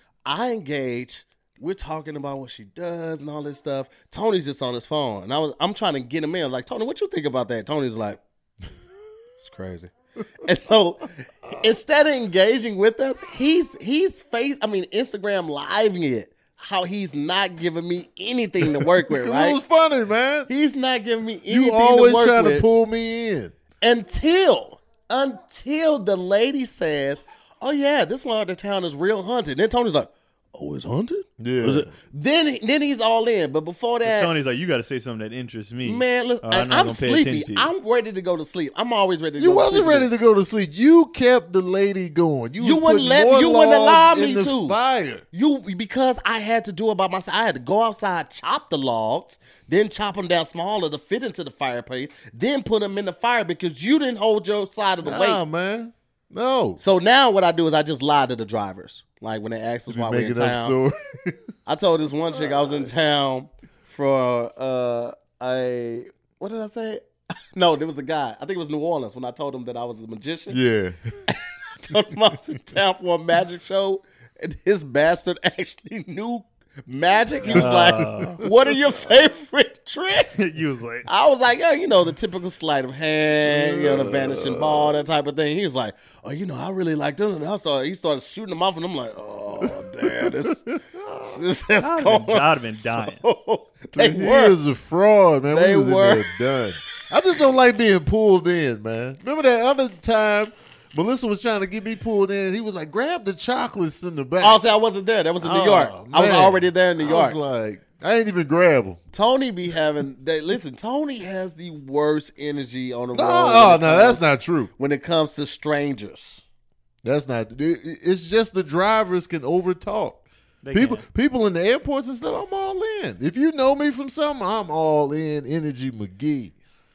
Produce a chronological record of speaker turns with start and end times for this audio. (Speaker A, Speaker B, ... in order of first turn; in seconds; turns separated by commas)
Speaker A: 0.2-8.2, Speaker A: 9.4-19.6, Speaker B: 18.6-20.5, Speaker A: 20.5-22.6, Speaker B: 21.5-23.5, Speaker A: 23.8-34.3, Speaker B: 31.4-31.9, Speaker C: 34.0-37.7, Speaker A: 35.8-40.1, Speaker B: 39.4-45.2, Speaker A: 42.6-44.8, Speaker A: 45.3-55.4, Speaker B: 55.0-56.8, Speaker A: 56.8-60.7, Speaker B: 59.9-61.4, Speaker A: 61.6-67.0, Speaker B: 62.3-62.9, Speaker A: 67.5-70.6, Speaker B: 70.5-71.0, Speaker A: 71.3-80.4, Speaker C: 77.4-78.4, Speaker B: 77.5-79.0, Speaker C: 80.1-81.1, Speaker A: 81.0-90.6, Speaker B: 83.5-85.0, Speaker B: 89.6-91.3, Speaker A: 91.2-94.5, Speaker C: 91.8-93.2, Speaker B: 93.9-104.6, Speaker A: 95.5-96.2, Speaker A: 104.4-107.4, Speaker B: 105.4-109.0, Speaker A: 109.1-116.4, Speaker B: 113.1-114.7, Speaker B: 117.0-126.5, Speaker C: 120.6-121.0